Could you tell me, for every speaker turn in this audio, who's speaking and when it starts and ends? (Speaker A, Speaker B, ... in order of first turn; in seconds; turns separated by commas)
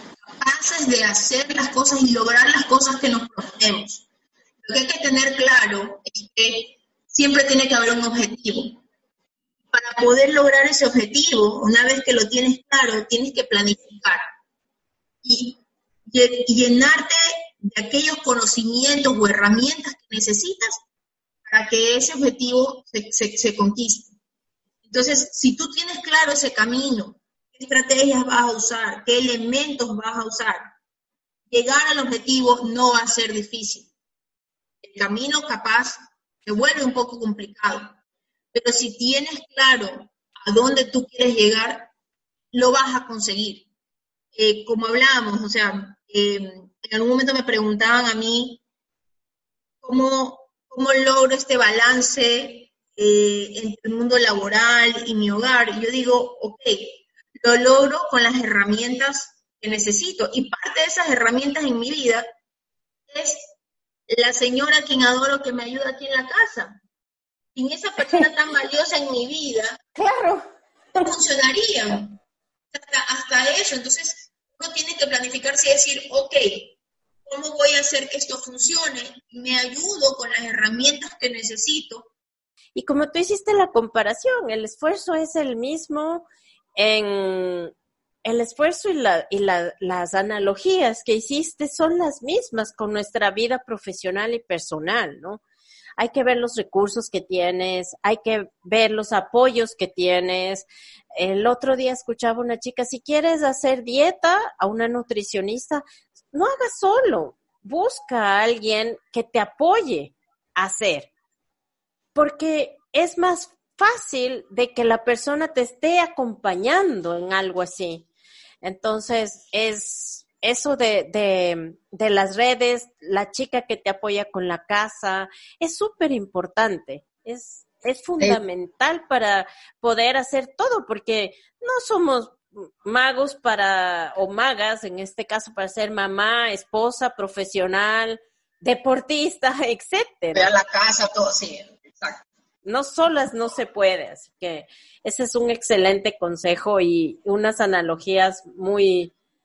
Speaker A: 0.3-4.0, Speaker A: 4.6-8.8, Speaker A: 9.7-14.3, Speaker A: 15.2-20.8, Speaker A: 21.4-24.1, Speaker A: 24.8-30.7, Speaker A: 31.5-33.9, Speaker A: 34.8-37.9, Speaker A: 38.5-41.9, Speaker A: 42.5-43.7, Speaker A: 44.4-48.6, Speaker A: 49.8-62.2, Speaker A: 63.1-63.5, Speaker A: 64.1-66.8, Speaker A: 67.5-69.8, Speaker B: 70.0-70.5, Speaker A: 71.0-72.2, Speaker A: 72.7-82.1, Speaker B: 82.7-87.7, Speaker B: 88.2-95.4, Speaker B: 96.0-111.1, Speaker B: 112.1-118.1, Speaker B: 118.6-140.5, Speaker A: 140.3-142.2, Speaker B: 142.6-149.1